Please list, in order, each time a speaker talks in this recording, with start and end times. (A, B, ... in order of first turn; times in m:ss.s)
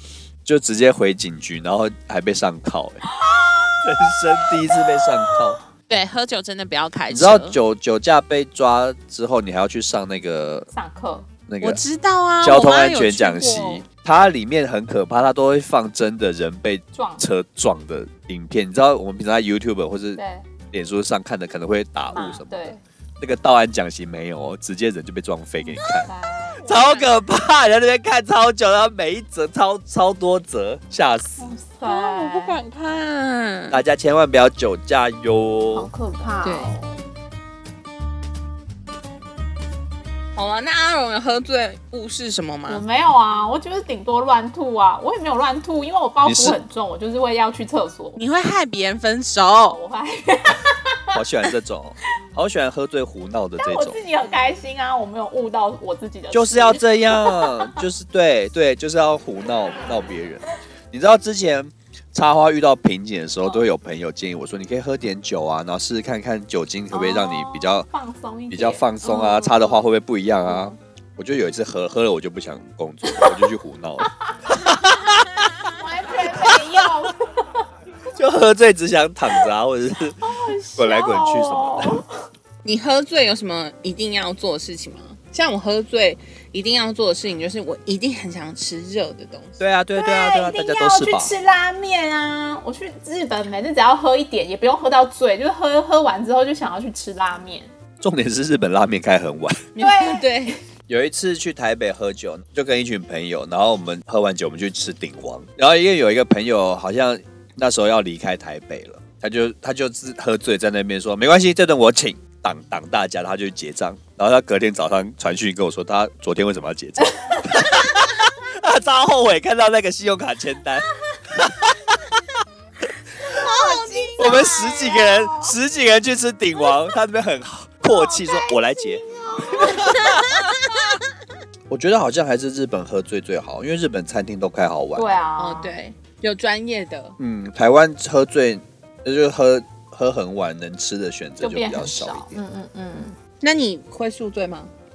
0:00.4-0:03.0 A
0:03.1-0:05.5 B
0:03.8-0:05.6 A
0:05.9-0:07.6 C
0:07.1-0:10.7 A
0:10.7-0:11.3 B
0:11.5-0:11.8 A
0:11.6-0:13.8 C
0:12.4-0:20.2 A
0:16.9-0:17.2 B
0:20.2-0:20.4 B
0:20.7-0:26.1 A
0:22.1-0:22.8 B
0:25.9-0:26.7 B
0:26.6-0:31.5 A
0:26.6-0:27.1 C
0:31.4-0:32.6 B
0:31.8-0:33.8 C
0:33.7-0:35.9 A
0:35.7-0:36.9 B
0:36.4-0:36.8 C
0:40.4-0:42.8 C
0:42.7-0:48.2 B
0:46.2-0:46.6 A
0:48.2-0:49.8 C
0:49.7-0:51.2 B
0:51.1-0:54.0 A
0:53.6-0:57.8 B
0:56.3-1:07.9 A
1:06.9-1:09.8 B
1:08.5-1:15.6 A
1:10.5-1:10.7 B
1:13.1-1:13.5 B
1:15.7-1:17.6 B
1:16.3-1:16.8 A
1:18.1-1:22.0 A
1:20.2-1:22.1 B
1:22.6-1:29.6 C
1:29.6-1:31.3 A
1:30.0-1:37.7 B
1:38.0-1:39.7 A
1:39.8-1:40.6 C
1:39.8-1:40.3 B
1:40.9-2:02.2 A
2:03.2-2:04.4 C
2:03.3-2:05.5 B
2:04.2-2:10.6 A
2:07.8-2:10.3 B
2:09.9-2:10.6 C
2:11.7-2:15.2 A
2:15.0-2:15.8 B
2:15.4-2:17.2 C
2:17.2-2:22.4 A
2:21.4-2:23.2 B
2:23.4-2:24.7 C